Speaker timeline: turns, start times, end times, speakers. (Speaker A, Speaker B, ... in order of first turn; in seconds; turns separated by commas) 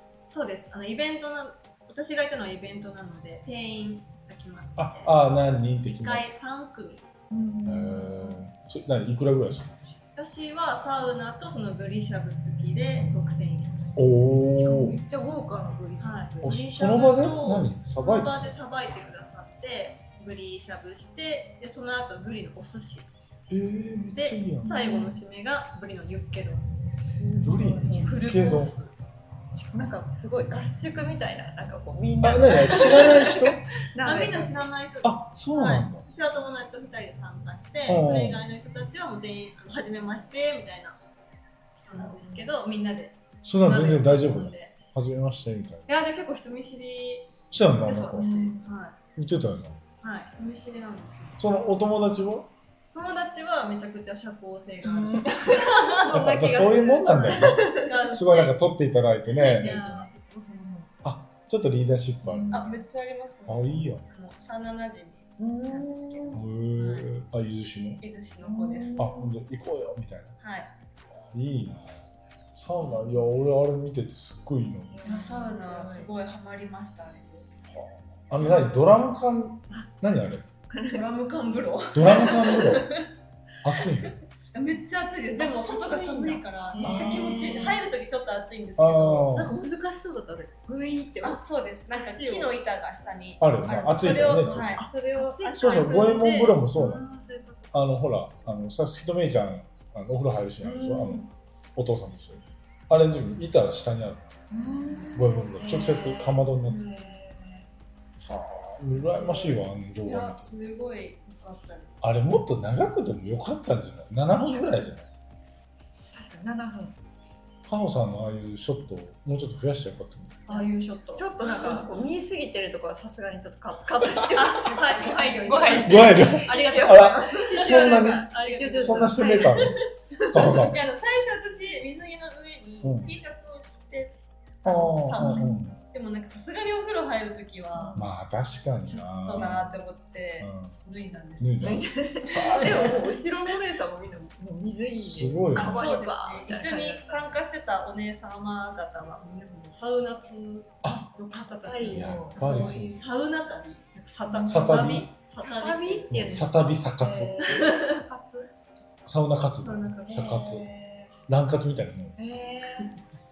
Speaker A: 0.3-5.2, Speaker B: 4.8-6.2, Speaker A: 5.8-7.1, Speaker C: 7.3-8.4, Speaker B: 7.7-10.0, Speaker A: 10.2-13.9, Speaker B: 14.0-15.0, Speaker C: 14.5-16.8, Speaker A: 16.0-23.1, Speaker B: 16.4-18.6, Speaker B: 23.5-24.7, Speaker A: 24.1-26.7, Speaker C: 24.6-25.2, Speaker C: 27.0-28.6, Speaker B: 27.4-28.8, Speaker A: 27.9-28.9, Speaker C: 29.6-34.7, Speaker B: 32.2-33.6, Speaker A: 32.7-33.4, Speaker A: 34.0-41.0, Speaker B: 35.0-36.0, Speaker B: 37.9-38.5, Speaker A: 41.8-44.8, Speaker C: 41.9-42.5, Speaker B: 43.5-45.9, Speaker A: 45.9-49.0, Speaker B: 47.5-48.3, Speaker C: 48.2-48.7, Speaker B: 49.2-49.8, Speaker A: 50.0-51.4, Speaker B: 51.4-52.5, Speaker A: 52.9-58.6, Speaker C: 54.8-55.7, Speaker B: 56.1-60.1, Speaker C: 57.3-57.9, Speaker A: 59.3-60.9, Speaker B: 61.0-62.8, Speaker C: 62.2-62.7, Speaker A: 62.5-67.1, Speaker B: 63.5-64.0, Speaker C: 65.4-66.4, Speaker B: 66.3-68.0, Speaker A: 68.0-69.1, Speaker C: 68.4-69.3, Speaker B: 69.0-70.4, Speaker A: 70.4-70.7, Speaker B: 71.1-75.0, Speaker C: 72.8-73.2, Speaker C: 74.9-76.1, Speaker A: 75.0-77.5, Speaker B: 77.7-80.5, Speaker C: 80.7-81.1, Speaker A: 80.9-83.1, Speaker B: 81.9-82.9, Speaker B: 83.6-84.2, Speaker A: 83.8-89.3, Speaker C: 85.3-87.8, Speaker B: 86.8-87.7, Speaker B: 88.8-89.5, Speaker C: 89.3-92.5, Speaker A: 91.2-96.6, Speaker B: 93.4-94.8, Speaker C: 94.6-95.9, Speaker B: 95.6-97.0, Speaker C: 96.7-97.7, Speaker B: 97.7-104.4, Speaker C: 100.6-101.3, Speaker C: 104.5-107.7, Speaker A: 104.6-105.2, Speaker B: 105.2-106.8, Speaker A: 106.7-107.2, Speaker B: 108.2-110.5, Speaker A: 108.9-112.2, Speaker B: 112.0-115.1, Speaker C: 114.3-114.7, Speaker C: 116.1-117.0, Speaker B: 117.7-120.5, Speaker A: 120.5-122.1, Speaker C: 120.5-130.4, Speaker A: 124.4-138.1, Speaker B: 125.8-129.8, Speaker B: 130.3-130.8, Speaker B: 132.8-133.2, Speaker B: 134.7-135.8, Speaker C: 135.2-135.6, Speaker C: 137.8-138.0, Speaker B: 138.0-139.8, Speaker A: 138.8-141.8, Speaker B: 140.4-140.8, Speaker B: 141.4-143.0, Speaker C: 141.6-147.3, Speaker A: 142.4-143.1, Speaker B: 145.0-145.9, Speaker A: 145.6-156.4, Speaker C: 150.9-153.0, Speaker B: 151.9-153.0, Speaker C: 154.2-154.8, Speaker B: 154.5-155.1, Speaker C: 155.4-158.5, Speaker B: 156.1-157.4, Speaker A: 157.4-158.0, Speaker B: 159.1-160.7, Speaker A: 159.6-160.2, Speaker C: 160.1-161.2, Speaker B: 161.3-162.2, Speaker C: 162.2-163.0